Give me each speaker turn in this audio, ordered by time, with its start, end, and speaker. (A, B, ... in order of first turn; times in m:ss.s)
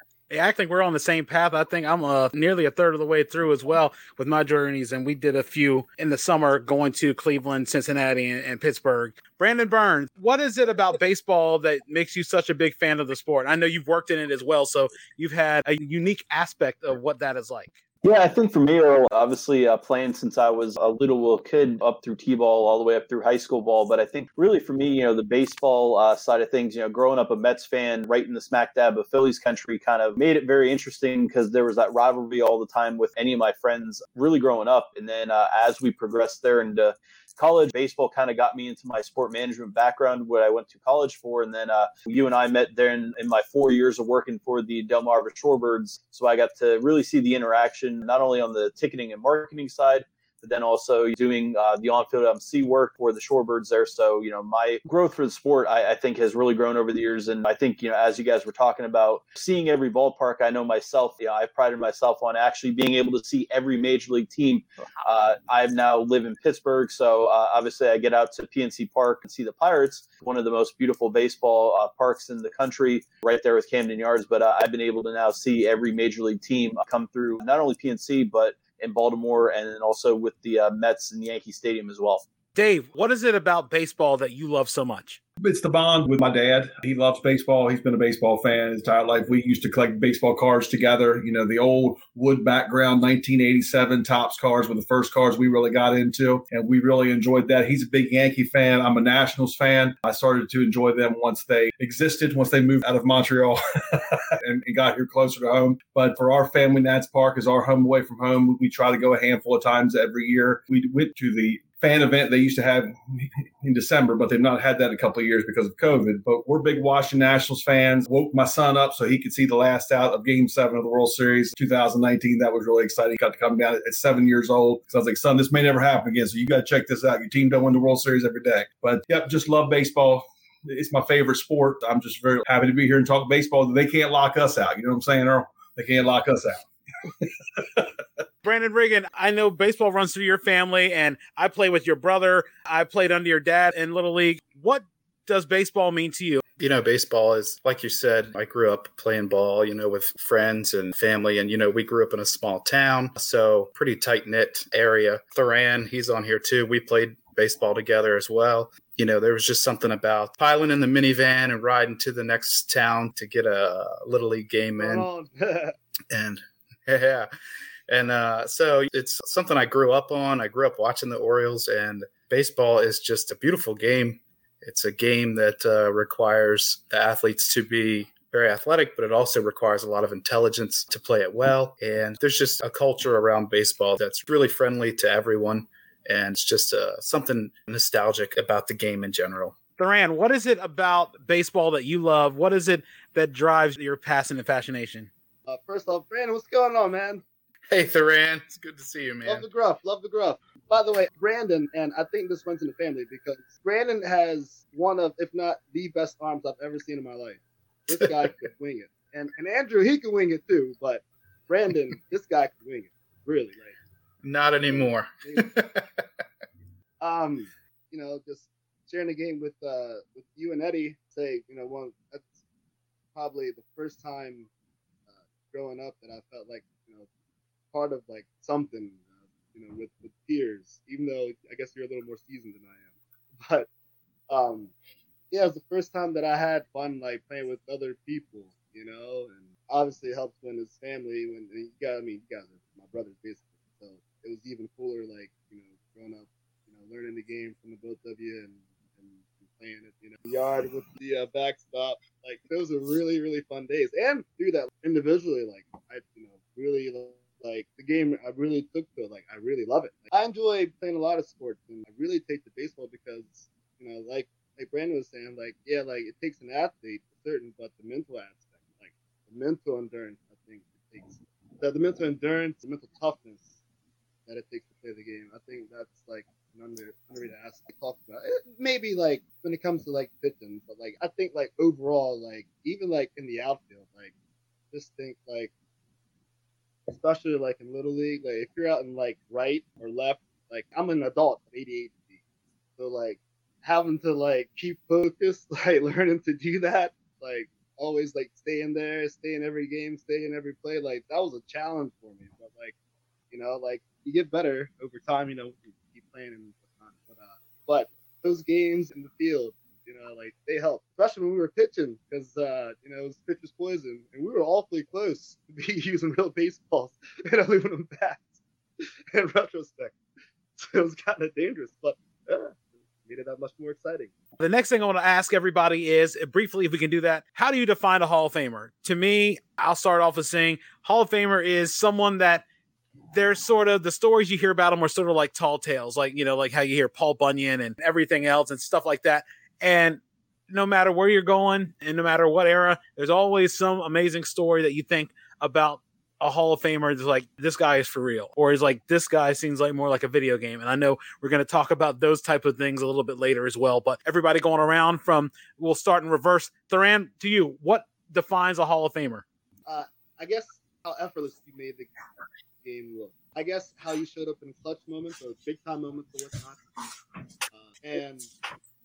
0:00.3-0:17.8 A
0:18.0-1:22.2 B
1:22.6-1:25.2 A
1:25.4-2:18.0 C
2:18.4-2:26.4 A
2:26.6-2:45.1 D
2:44.8-2:45.8 E
2:46.1-2:47.3 D
2:47.9-3:09.6 D
3:09.8-3:15.1 A
3:15.5-3:17.2 E
3:17.7-3:19.4 D
3:19.2-3:33.7 E
3:34.2-3:36.0 D
3:35.2-3:35.5 E
3:37.0-3:42.3 E
3:43.1-3:44.5 E
3:45.1-3:47.1 E
3:47.7-3:52.9 E
3:53.4-3:53.7 E
3:54.3-3:54.7 E
3:55.3-4:33.6 E
4:34.3-4:44.1 E
4:44.7-4:45.5 E
4:46.9-4:52.2 E
4:52.8-5:02.7 E
5:03.3-5:18.4 E
5:19.1-5:19.9 E
5:20.6-5:24.1 E
5:24.4-5:32.4 A
5:33.1-5:59.2 A
5:59.6-6:02.0 E
6:02.6-6:06.8 E
6:07.6-6:08.3 E